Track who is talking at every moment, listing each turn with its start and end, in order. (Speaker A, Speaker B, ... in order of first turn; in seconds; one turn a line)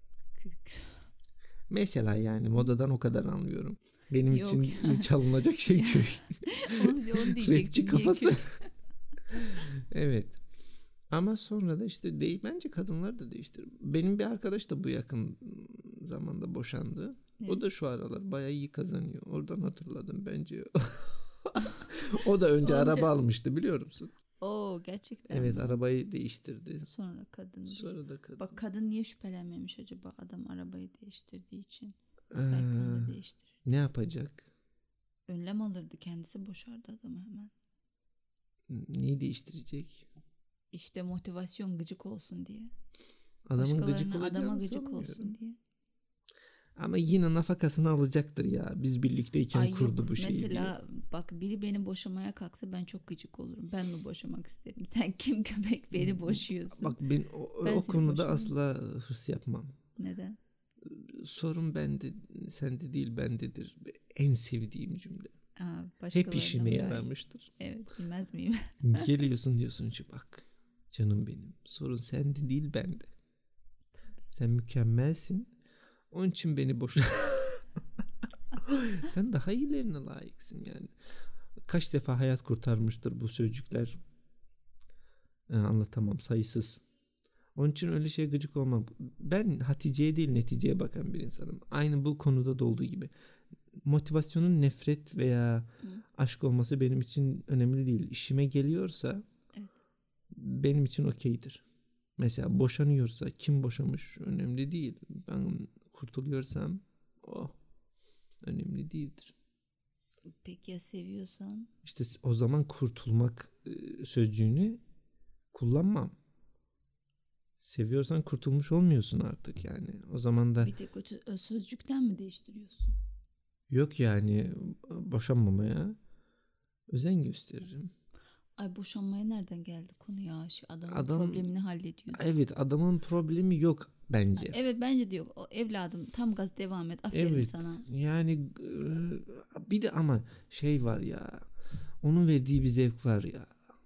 Speaker A: 0.4-1.1
Speaker B: 1.7-8.6
Speaker A: 4.3-8.7
Speaker B: 9.3-10.4
Speaker B: 11.1-24.1
Speaker A: 22.6-23.1
Speaker A: 24.4-25.8
Speaker B: 25.3-26.9
Speaker A: 26.8-31.9
Speaker B: 27.7-28.6
Speaker B: 32.3-34.5
Speaker A: 32.5-33.5
Speaker A: 35.3-37.5
Speaker B: 38.7-40.1
Speaker A: 40.7-42.7
Speaker B: 43.5-45.3
Speaker A: 43.6-45.6
Speaker B: 46.8-50.7
Speaker A: 49.5-57.0
Speaker B: 55.9-59.7
Speaker A: 57.6-58.5
Speaker A: 60.0-60.4
Speaker B: 60.8-65.3
Speaker A: 65.6-69.1
Speaker B: 66.1-67.5
Speaker B: 68.8-73.1
Speaker B: 74.3-75.5
Speaker B: 76.1-77.6
Speaker B: 78.6-80.9
Speaker B: 81.6-84.0
Speaker B: 85.5-86.8
Speaker B: 87.5-93.1
Speaker B: 93.8-99.2
Speaker B: 100.3-101.6
Speaker B: 102.2-107.5
Speaker B: 108.4-109.3
Speaker A: 110.4-111.7
Speaker B: 111.8-114.8
Speaker B: 115.5-116.1
Speaker B: 117.6-120.7
Speaker A: 120.6-122.9
Speaker B: 123.7-126.0
Speaker B: 126.9-127.9
Speaker A: 128.6-132.2
Speaker B: 130.9-131.5
Speaker B: 132.1-134.6
Speaker A: 134.4-137.8
Speaker B: 137.1-141.5
Speaker B: 142.0-143.6